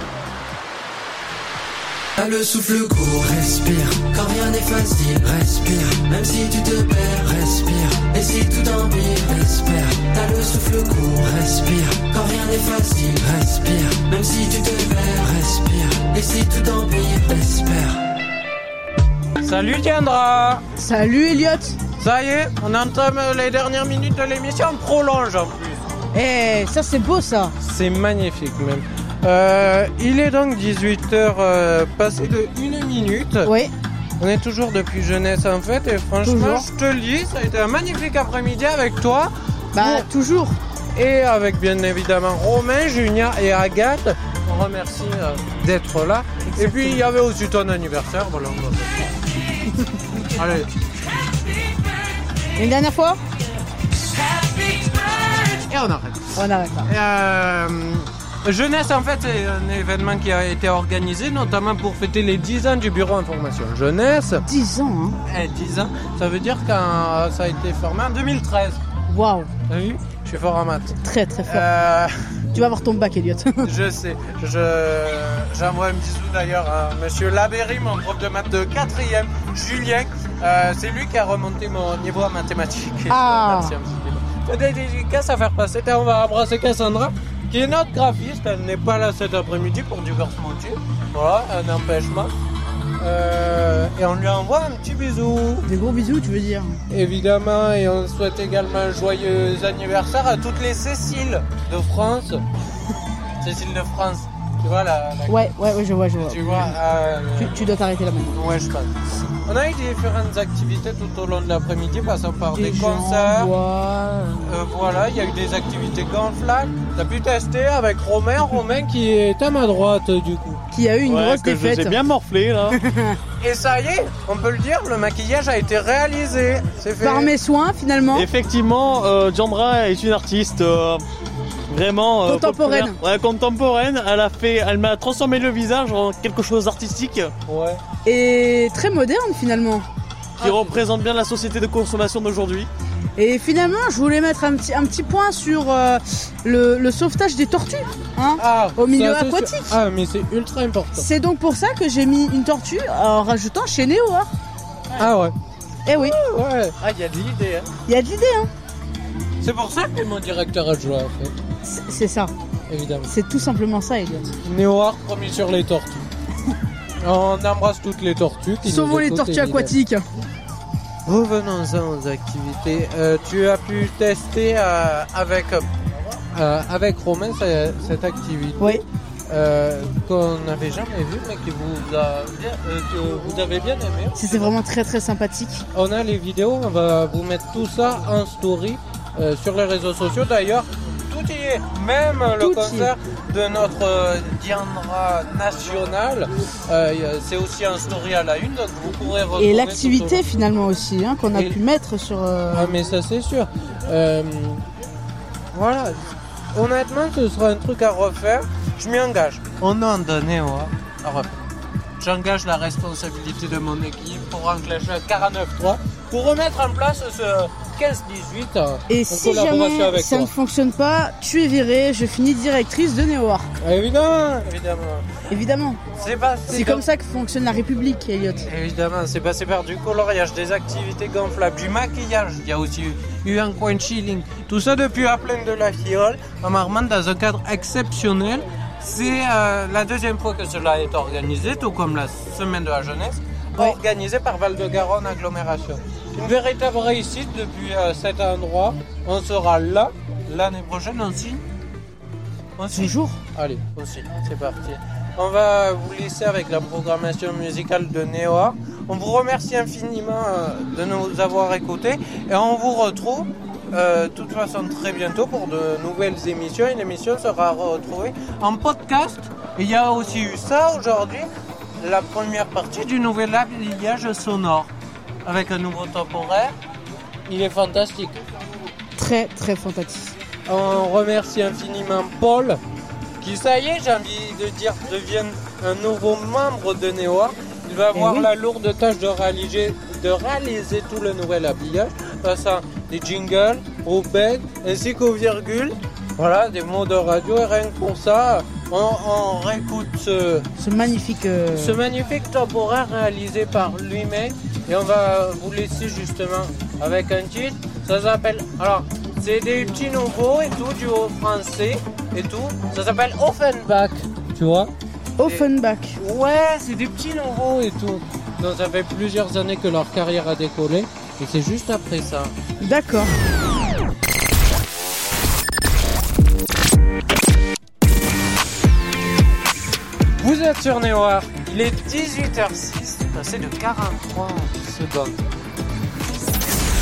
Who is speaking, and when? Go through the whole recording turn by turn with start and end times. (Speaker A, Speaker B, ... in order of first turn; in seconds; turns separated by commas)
Speaker A: 2.2-17.9, Speaker B: 2.2-2.5, Speaker B: 3.7-4.0, Speaker B: 6.8-9.9, Speaker C: 19.4-20.6, Speaker D: 20.8-21.8, Speaker C: 22.0-25.8, Speaker D: 26.1-27.5, Speaker C: 27.6-33.5, Speaker D: 33.4-33.7, Speaker C: 34.2-40.1, Speaker D: 36.2-36.7, Speaker D: 39.7-40.6, Speaker C: 40.9-49.1, Speaker D: 46.5-47.0, Speaker C: 50.3-50.7, Speaker D: 52.5-53.2, Speaker C: 54.1-64.4, Speaker D: 56.4-56.9, Speaker D: 64.4-65.2, Speaker C: 65.2-68.8, Speaker D: 69.1-69.5, Speaker C: 69.7-71.0, Speaker D: 71.0-71.7, Speaker C: 71.5-72.1, Speaker D: 72.5-73.7, Speaker C: 73.6-92.3, Speaker D: 83.1-83.7, Speaker C: 93.0-95.7, Speaker D: 95.6-96.8, Speaker C: 96.9-102.4, Speaker C: 103.4-107.7, Speaker D: 105.3-106.8, Speaker D: 107.3-108.4, Speaker C: 108.3-108.9, Speaker C: 109.4-113.5, Speaker D: 112.5-114.4, Speaker C: 114.4-120.6, Speaker D: 120.7-122.0, Speaker B: 121.0-122.8, Speaker D: 122.7-123.2, Speaker C: 123.4-127.3, Speaker D: 127.0-128.3, Speaker B: 128.1-131.1, Speaker B: 131.7-137.3, Speaker D: 132.2-133.0, Speaker C: 137.5-137.8, Speaker D: 138.0-139.8, Speaker C: 140.4-140.8, Speaker B: 140.4-142.7, Speaker D: 143.2-149.8, Speaker C: 148.4-151.1, Speaker D: 150.9-154.3, Speaker C: 155.0-155.3, Speaker D: 155.8-156.2, Speaker C: 155.9-157.7, Speaker D: 157.8-158.5, Speaker C: 159.4-161.3, Speaker D: 161.6-162.3, Speaker C: 162.7-163.1, Speaker D: 163.1-164.3, Speaker C: 164.4-166.1, Speaker C: 167.0-169.8, Speaker D: 168.6-170.0, Speaker C: 171.1-178.7, Speaker C: 179.3-184.5, Speaker D: 184.1-185.6, Speaker C: 185.7-200.2, Speaker D: 192.4-192.9, Speaker D: 199.4-202.8, Speaker C: 201.3-201.6, Speaker C: 202.5-204.6, Speaker C: 205.5-211.4, Speaker C: 212.0-220.3, Speaker D: 218.9-223.5, Speaker C: 223.6-225.3, Speaker D: 225.3-225.8, Speaker C: 225.9-226.8, Speaker D: 226.5-228.5, Speaker C: 228.4-251.4, Speaker C: 252.6-271.3, Speaker D: 252.7-253.2, Speaker C: 271.8-274.7, Speaker C: 275.2-276.5, Speaker C: 277.3-278.2, Speaker D: 278.9-280.1, Speaker C: 280.5-282.6, Speaker C: 283.2-300.5, Speaker D: 287.9-288.3, Speaker D: 300.6-301.8, Speaker C: 301.5-322.4, Speaker D: 315.2-316.0, Speaker D: 322.6-323.1, Speaker C: 330.2-335.2